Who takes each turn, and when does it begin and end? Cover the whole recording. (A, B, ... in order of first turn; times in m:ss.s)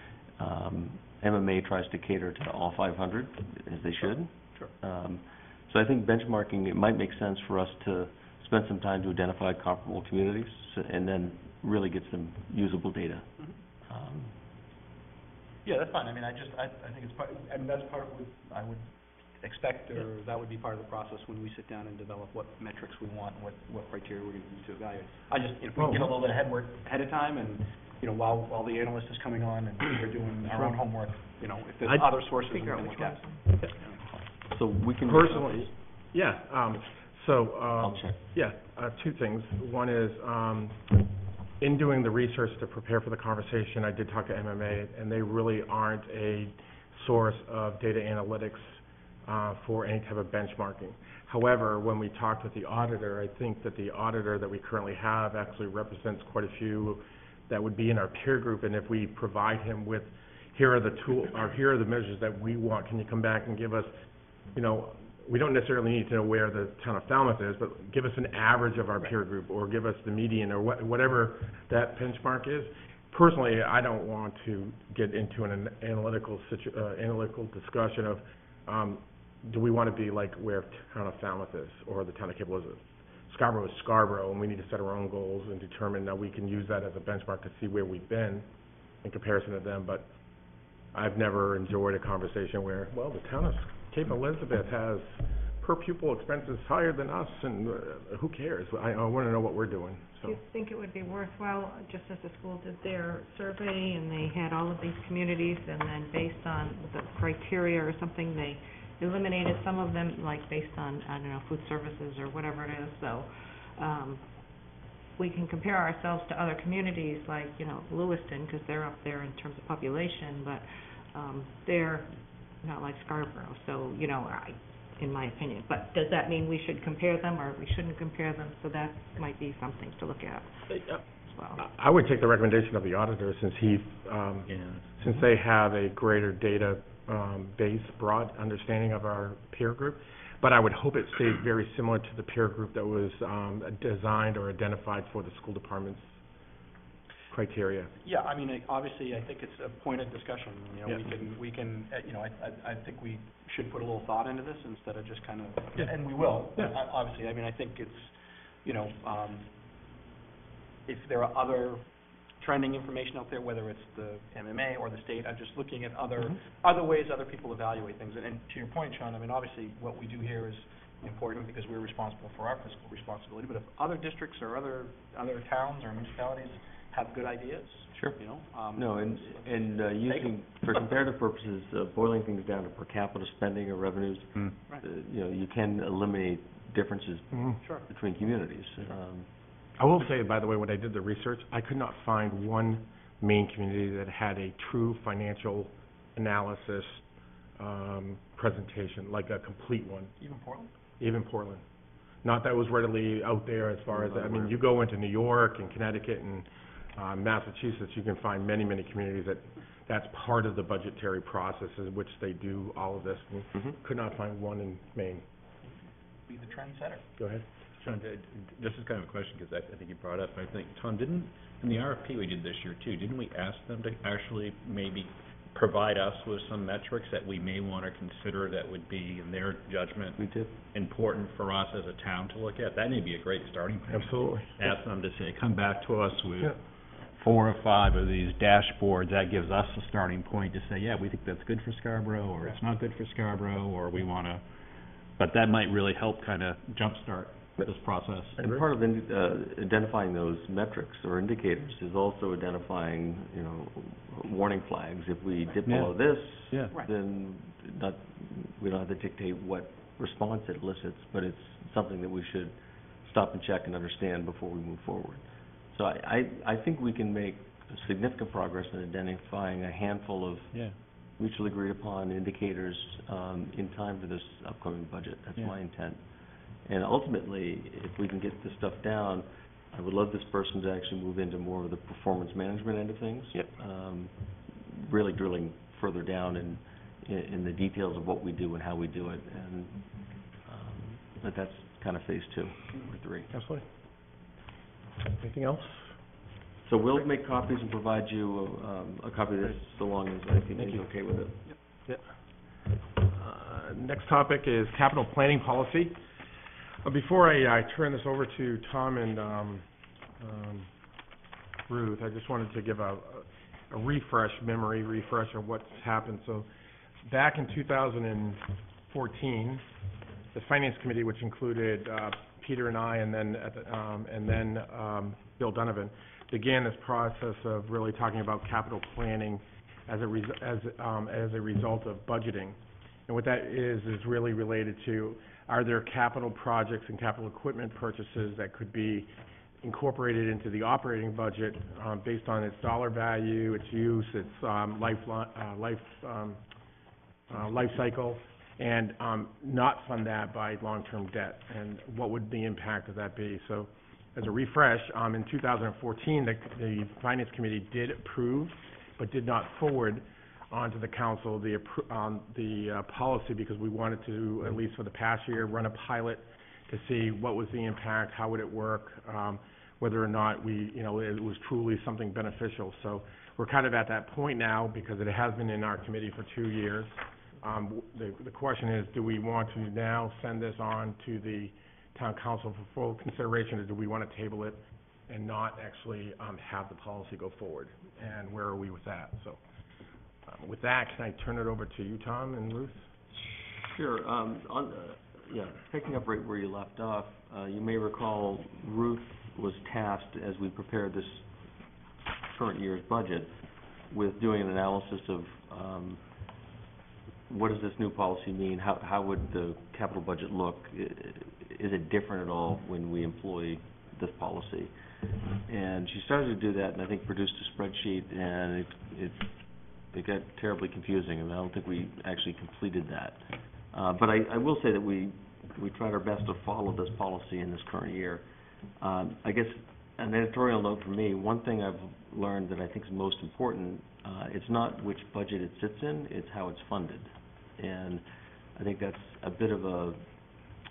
0:00.4-0:13.3 A
0:13.9-0:14.3 A
0:15.6-0:33.2 B
0:25.8-0:26.1 C
0:30.5-0:30.8 D
0:32.5-0:33.5 E
0:33.7-0:34.0 B
0:34.5-0:35.7 A
0:35.0-0:40.9 C
0:37.8-0:38.2 A
0:41.6-1:03.9 C
1:04.6-1:28.4 C
1:29.0-1:30.1 C
1:30.9-1:40.4 C
1:40.2-1:54.2 E
1:55.2-2:10.6 E
2:11.2-2:11.6 E
2:11.6-2:26.2 C
2:14.5-2:14.9 D
2:27.3-2:27.9 C
2:28.0-2:38.1 B
2:38.6-2:39.5 B
2:40.9-2:41.9 B
2:42.4-2:59.4 B
2:58.7-3:09.3 A
3:00.1-3:00.8 B
3:07.3-3:07.6 C
3:09.8-3:17.0 C
3:17.6-3:20.1 C
3:20.2-3:20.7 B
3:21.0-3:21.6 C
3:22.2-3:35.2 C
3:23.9-3:24.6 A
3:36.3-3:37.0 B
3:37.2-3:37.4 C
3:37.8-3:50.2 D
3:50.2-3:50.5 A
3:50.7-3:56.6 D
3:53.9-3:54.6 C
3:57.2-4:04.4 D
4:05.2-4:08.4 D
4:08.4-4:30.6 A
4:15.6-4:15.9 D
4:31.2-4:36.0 A
4:36.6-4:49.8 A
4:50.4-4:53.3 A
4:53.3-4:53.6 C
4:55.1-4:55.9 C
4:56.6-5:01.4 A
5:00.6-5:00.9 C
5:03.0-5:06.0 C
5:06.8-5:09.6 C
5:10.2-5:10.7 C
5:11.7-5:16.5 C
5:17.0-5:19.6 C
5:20.3-5:32.6 C
5:33.1-5:39.1 C
5:39.6-5:46.4 C
5:47.3-6:29.4 C
6:30.3-6:32.9 C
6:33.1-6:41.3 A
6:42.3-6:43.3 A
6:43.9-6:46.0 A
6:47.3-6:54.7 A
6:55.5-6:59.3 A
6:59.9-7:08.2 A
7:08.8-7:18.0 A
7:18.6-7:20.0 A